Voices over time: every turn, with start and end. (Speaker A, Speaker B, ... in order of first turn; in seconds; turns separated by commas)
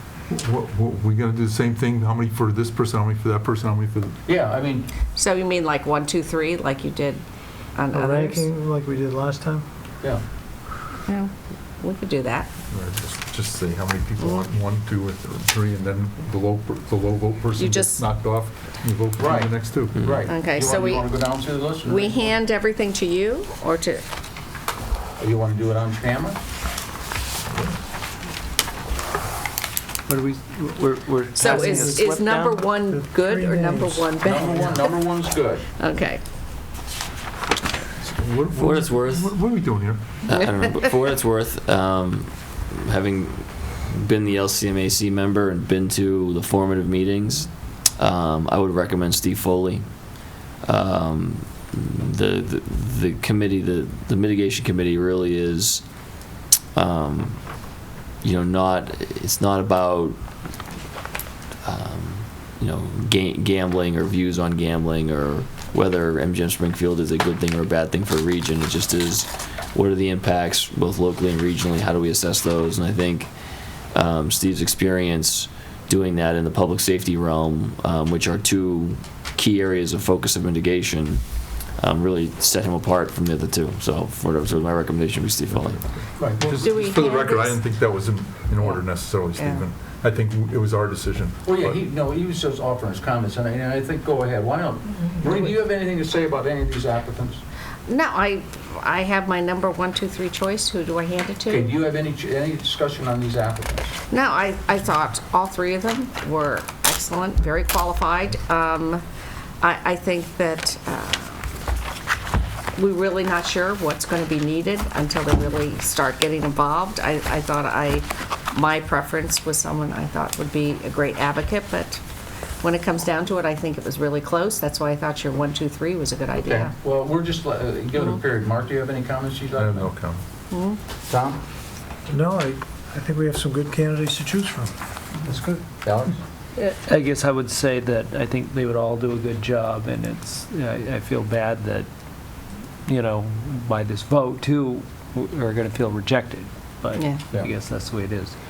Speaker A: 0.3-4.2, Speaker B: 4.3-4.9, Speaker C: 5.2-7.2, Speaker C: 7.8-8.5, Speaker D: 7.9-9.7, Speaker C: 11.1-12.5, Speaker A: 12.7-20.0, Speaker C: 17.6-18.1, Speaker B: 19.2-22.3, Speaker E: 20.0-20.2, Speaker C: 20.3-24.0, Speaker B: 25.2-26.4, Speaker A: 27.5-27.8, Speaker F: 30.1-32.8, Speaker C: 31.4-35.0, Speaker D: 31.5-32.0, Speaker D: 32.9-34.8, Speaker B: 34.2-35.6, Speaker C: 35.8-36.2, Speaker A: 38.0-40.2, Speaker E: 38.6-39.3, Speaker E: 40.2-49.8, Speaker C: 40.3-41.0, Speaker E: 50.6-55.9, Speaker E: 56.8-57.6, Speaker E: 58.2-60.2, Speaker E: 61.6-73.3, Speaker E: 73.9-85.8, Speaker A: 85.5-91.8, Speaker B: 86.2-86.5, Speaker C: 86.4-87.7, Speaker C: 88.6-89.6, Speaker B: 91.5-97.4, Speaker C: 97.9-101.7, Speaker B: 101.5-104.0, Speaker C: 104.1-109.0, Speaker C: 109.6-111.4, Speaker C: 112.8-122.0, Speaker C: 122.6-126.8, Speaker B: 126.4-129.9, Speaker A: 129.6-130.2, Speaker C: 130.5-130.8, Speaker B: 131.1-131.4, Speaker D: 132.1-135.6, Speaker B: 135.8-136.2, Speaker F: 136.6-141.9, Speaker F: 142.9-148.3, Speaker C: 146.9-147.2